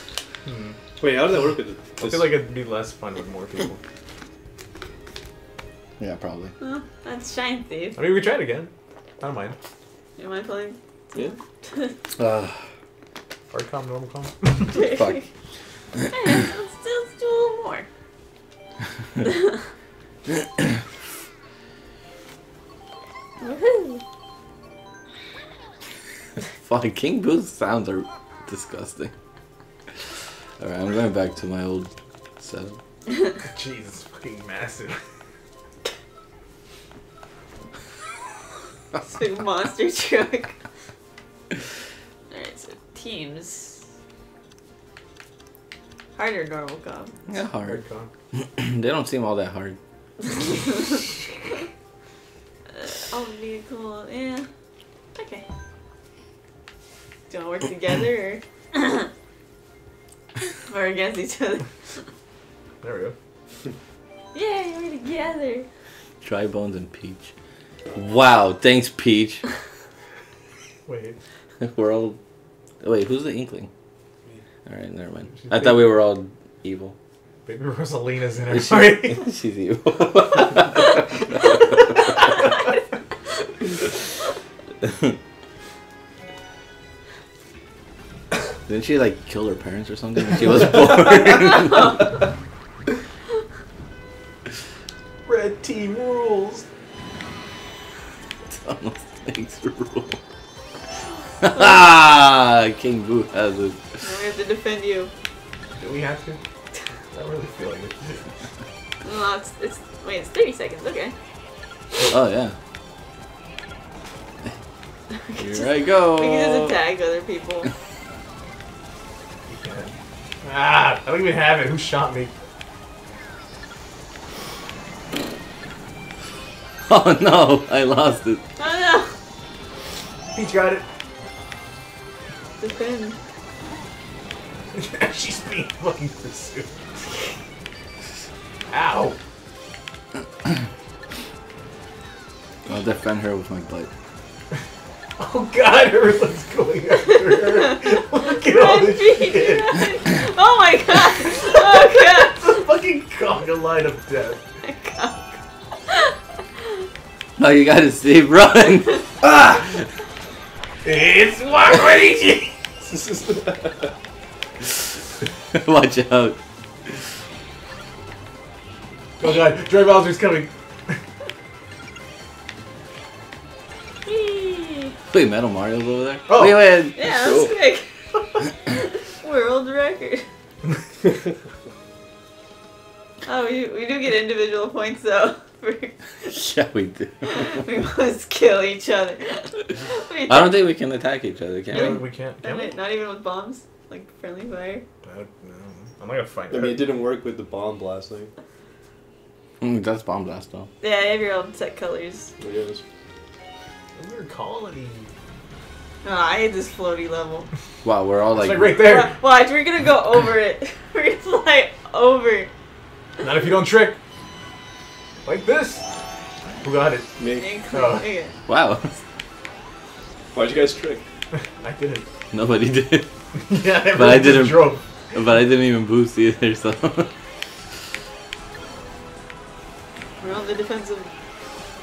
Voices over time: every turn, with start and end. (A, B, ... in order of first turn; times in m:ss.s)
0:00.4-0:00.8 A
0:01.0-0:02.4 B
0:02.0-0:03.8 A
0:06.0-0:06.5 C
0:06.6-0:08.0 D
0:08.0-0:09.6 A
0:10.2-0:11.9 D
0:12.2-0:12.6 C
0:13.5-0:14.7 A
0:14.7-0:15.3 D
0:14.7-0:15.2 C
0:16.1-0:17.9 D
0:19.2-0:19.6 D
0:20.3-0:20.7 C
0:23.4-0:24.0 D
0:26.6-0:29.1 C
0:30.6-0:32.8 C
0:33.4-0:35.0 A
0:39.0-0:40.6 D
0:42.3-0:43.8 D
0:46.2-0:47.2 D
0:47.3-0:47.8 C
0:47.6-0:48.1 A
0:48.3-0:49.8 C
0:52.7-0:54.5 D
0:55.2-0:55.4 D
0:57.3-0:59.1 D
1:00.7-1:01.7 D
1:02.8-1:03.2 A
1:04.3-1:05.7 D
1:06.2-1:07.3 C
1:08.0-1:09.4 C
1:10.9-1:11.2 A
1:11.6-1:12.2 C
1:12.8-1:13.7 C
1:14.7-1:17.0 C
1:15.3-1:16.0 A
1:17.5-1:19.3 A
1:18.5-1:21.0 C
1:24.8-1:25.2 C
1:28.7-1:32.1 C
1:35.2-1:36.6 A
1:38.5-1:40.2 C
1:41.4-1:43.8 C
1:44.0-1:45.1 D
1:45.8-1:46.4 A
1:47.1-1:48.2 A
1:49.0-1:51.1 D
1:52.0-1:52.6 C
1:55.3-1:57.7 D
1:55.4-1:56.8 C
1:59.5-2:02.3 A
2:06.9-2:08.4 C
2:08.6-2:09.1 D
2:10.3-2:10.8 A
2:12.6-2:13.2 D
2:14.7-2:16.8 A
2:18.7-2:19.2 A
2:22.7-2:23.9 C
2:25.2-2:29.8 A
2:28.3-2:32.4 D
2:31.7-2:34.4 A
2:34.6-2:35.3 D
2:35.9-2:36.1 D
2:37.4-2:39.0 C
2:39.2-2:39.6 B
2:40.8-2:42.5 A
2:42.8-2:43.9 B
2:45.5-2:46.4 C
2:49.2-2:51.0 A
2:54.0-2:54.9 D
2:55.1-2:57.0 C
2:56.3-2:56.6 A
2:57.0-2:57.9 D
2:57.0-2:57.5 B
2:58.7-3:00.2 D
3:03.2-3:06.0 D
3:06.2-3:07.6 C
3:07.2-3:10.7 D
3:10.3-3:12.0 C
3:11.7-3:12.8 A
3:11.7-3:14.8 D
3:15.0-3:16.9 A
3:16.5-3:18.3 B
3:19.6-3:20.7 C
3:20.8-3:22.3 D
3:22.4-3:22.8 B
3:24.0-3:25.1 A
3:26.0-3:27.5 D
3:27.8-3:28.8 C
3:28.3-3:29.1 A
3:28.8-3:32.5 D
3:33.2-3:34.0 A
3:35.2-3:35.8 A
3:36.6-3:37.1 A
3:37.2-3:37.5 B
3:37.4-3:38.4 D
3:37.7-3:38.1 A
3:38.5-3:38.9 C
3:40.3-3:41.0 B
3:41.4-3:42.0 A
3:42.3-3:43.1 C
3:43.4-3:44.8 A
3:43.9-3:47.1 C
3:50.2-3:51.1 D